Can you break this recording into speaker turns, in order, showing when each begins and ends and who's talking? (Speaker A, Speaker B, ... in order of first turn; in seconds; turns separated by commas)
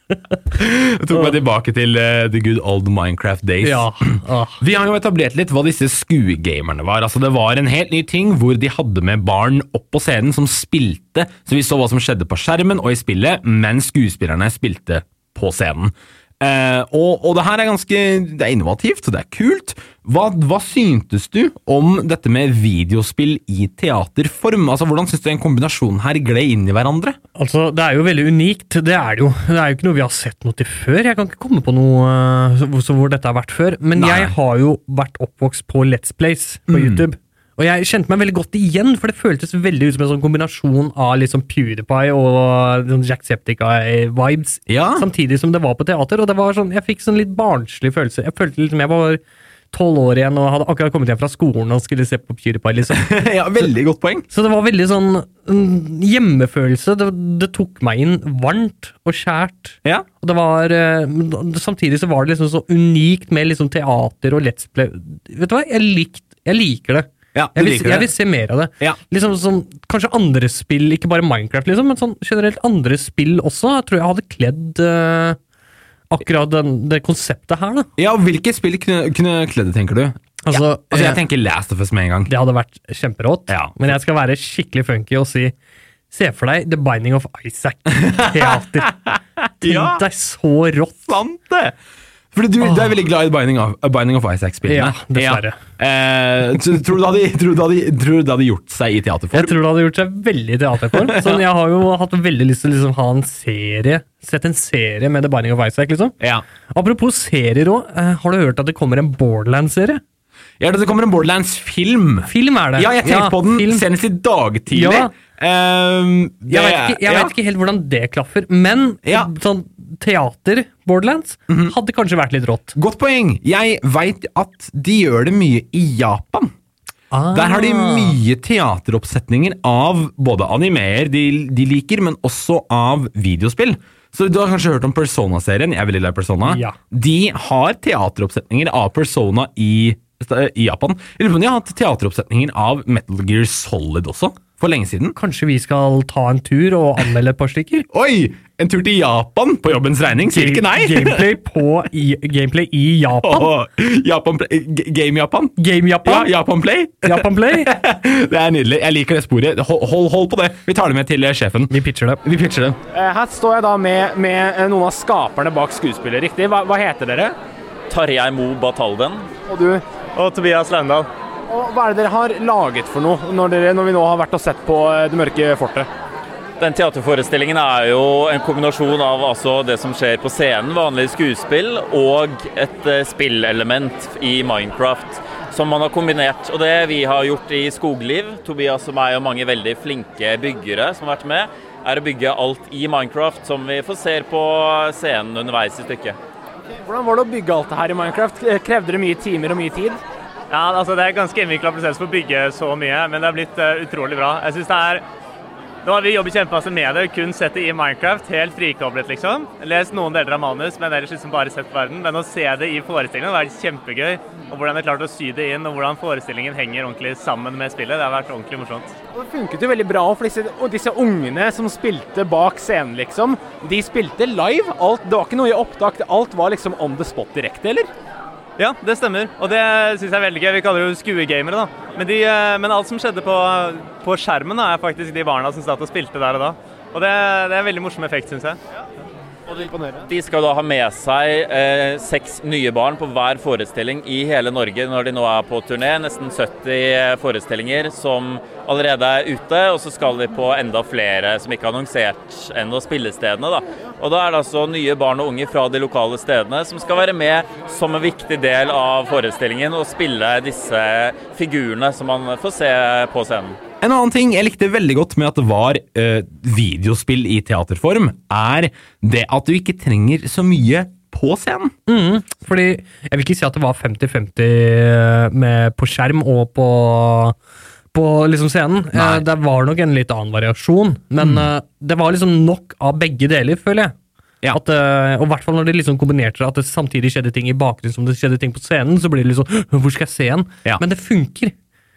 Speaker A: 0.5-27.2, Speaker B: 3.6-4.6, Speaker B: 27.4-49.2, Speaker A: 34.0-34.3, Speaker A: 36.7-37.0, Speaker A: 44.7-45.0, Speaker B: 49.7-53.1, Speaker A: 52.9-54.2, Speaker B: 54.3-75.4, Speaker A: 67.3-68.1, Speaker B: 76.1-77.9, Speaker A: 78.0-82.3, Speaker B: 80.4-81.2, Speaker B: 82.3-85.5, Speaker A: 83.5-83.9, Speaker B: 86.1-89.0, Speaker A: 87.9-90.0, Speaker B: 89.6-91.1, Speaker A: 91.1-91.8, Speaker A: 92.3-99.6, Speaker B: 92.6-92.9, Speaker B: 94.7-95.6, Speaker B: 99.3-106.2, Speaker A: 100.9-101.4, Speaker B: 106.7-110.0, Speaker A: 110.6-117.3, Speaker B: 112.3-113.8, Speaker B: 114.7-115.1, Speaker B: 116.5-122.7, Speaker A: 119.0-119.3, Speaker A: 121.5-121.7, Speaker A: 122.7-126.5, Speaker B: 127.1-128.2, Speaker A: 127.3-145.2, Speaker B: 136.4-136.8, Speaker B: 145.2-147.9, Speaker A: 147.9-151.3, Speaker B: 150.2-153.5, Speaker A: 153.2-162.8, Speaker B: 155.6-156.3, Speaker B: 157.0-157.7, Speaker B: 161.7-162.2, Speaker C: 162.9-167.3, Speaker D: 167.9-169.3, Speaker C: 169.5-169.8, Speaker E: 170.1-171.1, Speaker C: 171.5-175.9, Speaker D: 176.6-196.2, Speaker C: 196.8-200.0, Speaker E: 200.5-205.0, Speaker E: 205.8-218.9, Speaker C: 219.1-227.9, Speaker E: 228.6-238.6, Speaker C: 239.5-240.1, Speaker D: 240.1-263.6, Speaker A: 263.8-271.7, Speaker B: 271.9-277.4, Speaker B: 277.9-283.9, Speaker A: 278.9-279.2, Speaker A: 281.2-281.4, Speaker B: 284.5-291.5